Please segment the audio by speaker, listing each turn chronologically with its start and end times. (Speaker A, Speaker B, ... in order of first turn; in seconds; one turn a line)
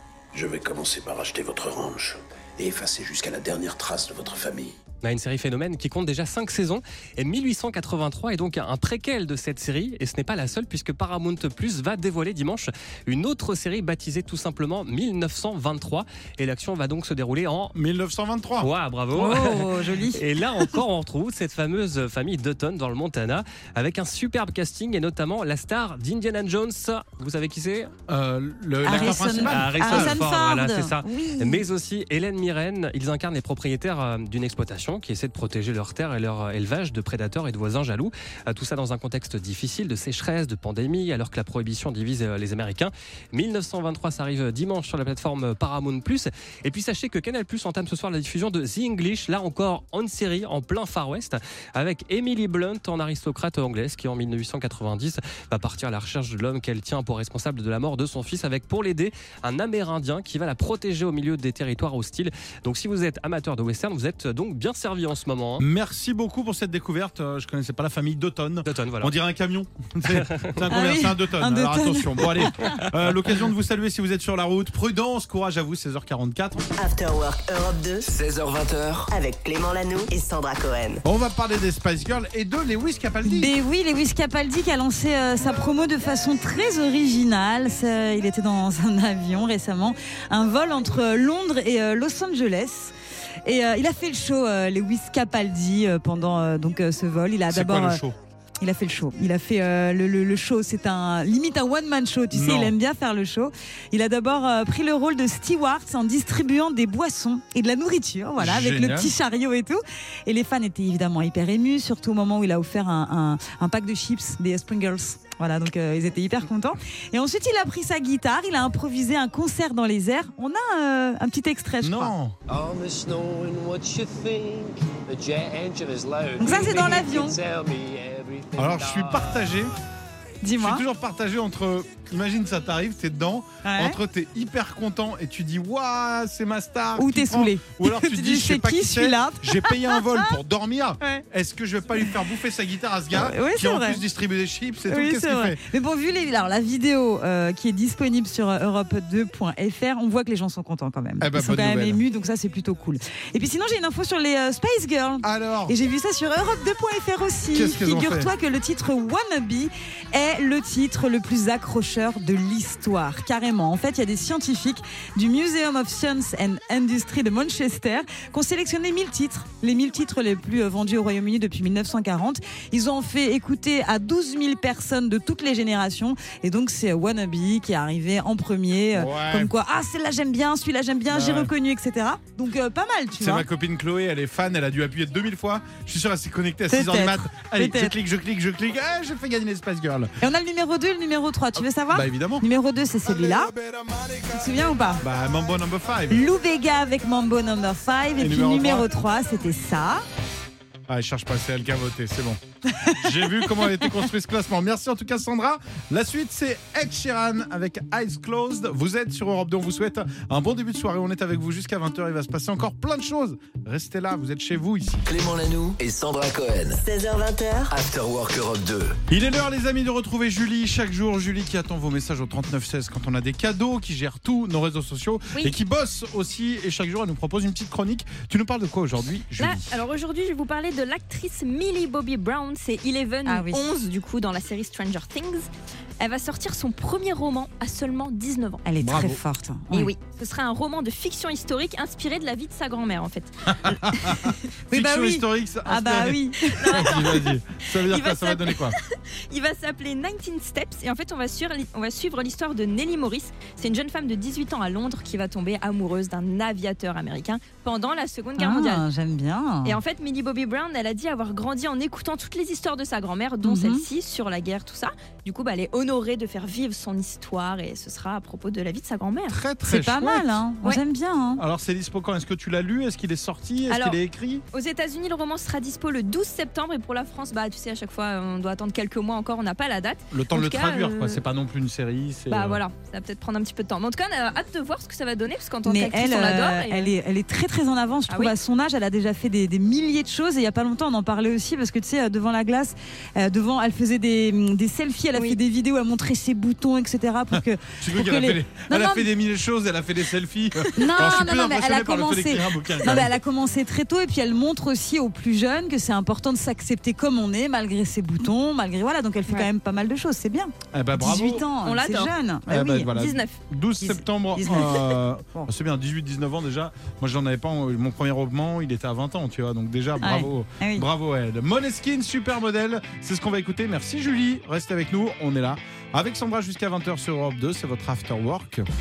Speaker A: 0.3-4.8
Speaker B: 5.0-17.8
Speaker C: 17.8-18.7
Speaker B: 18.6-27.9
Speaker D: 19.1-20.2
Speaker C: 28.1-30.2
Speaker D: 28.8-31.6
Speaker B: 28.9-65.6
Speaker C: 65.6-76.7
Speaker B: 68.7-69.1
Speaker B: 70.1-70.5
Speaker D: 70.7-72.8
Speaker E: 76.8-78.1
Speaker F: 78.0-79.1
Speaker E: 79.1-81.0
Speaker C: 81.0-83.5
Speaker D: 83.2-92.9
Speaker D: 93.5-98.0
Speaker C: 97.5-98.2
Speaker D: 98.6-122.2
Speaker C: 102.3-102.7
Speaker C: 108.4-109.1
Speaker C: 121.8-122.4
Speaker G: 122.5-129.7
Speaker D: 126.4-127.4
Speaker C: 128.6-129.7
Speaker D: 130.4-130.8
Speaker C: 130.6-145.6
Speaker D: 133.6-134.0
Speaker D: 137.0-140.3
Speaker D: 143.1-144.0
Speaker D: 144.9-183.4
Speaker C: 151.2-152.0
Speaker C: 155.2-155.8
Speaker C: 157.5-158.3
Speaker C: 178.9-179.5
Speaker C: 181.1-181.5
Speaker C: 183.2-190.1
Speaker D: 186.7-188.0
Speaker D: 190.2-193.6
Speaker C: 191.9-192.5
Speaker D: 194.2-195.0
Speaker C: 195.0-196.3
Speaker D: 196.1-200.0
Speaker C: 198.2-198.9
Speaker C: 200.9-215.1
Speaker D: 202.8-203.9
Speaker F: 215.1-216.8
Speaker E: 216.8-217.7
Speaker F: 217.7-219.0
Speaker C: 219.1-229.8
Speaker H: 229.4-235.5
Speaker D: 233.3-233.7
Speaker H: 236.0-238.6
Speaker D: 238.7-239.9
Speaker C: 238.8-239.2
Speaker H: 239.7-243.3
Speaker C: 243.5-248.8
Speaker D: 244.0-247.2
Speaker H: 246.6-258.8
Speaker D: 258.4-259.8
Speaker H: 259.6-269.4
Speaker D: 263.4-263.8
Speaker C: 269.3-270.4
Speaker D: 269.7-271.4
Speaker C: 271.4-274.4
Speaker H: 273.7-274.0
Speaker H: 274.5-281.2
Speaker C: 280.1-282.6
Speaker H: 282.3-286.9
Speaker D: 285.6-299.1
Speaker H: 288.1-288.4
Speaker C: 297.3-303.1
Speaker D: 300.7-313.0
Speaker C: 310.7-311.5
Speaker H: 311.6-312.1
Speaker C: 312.5-328.7
Speaker H: 312.8-313.4
Speaker D: 314.4-315.5
Speaker D: 320.0-320.9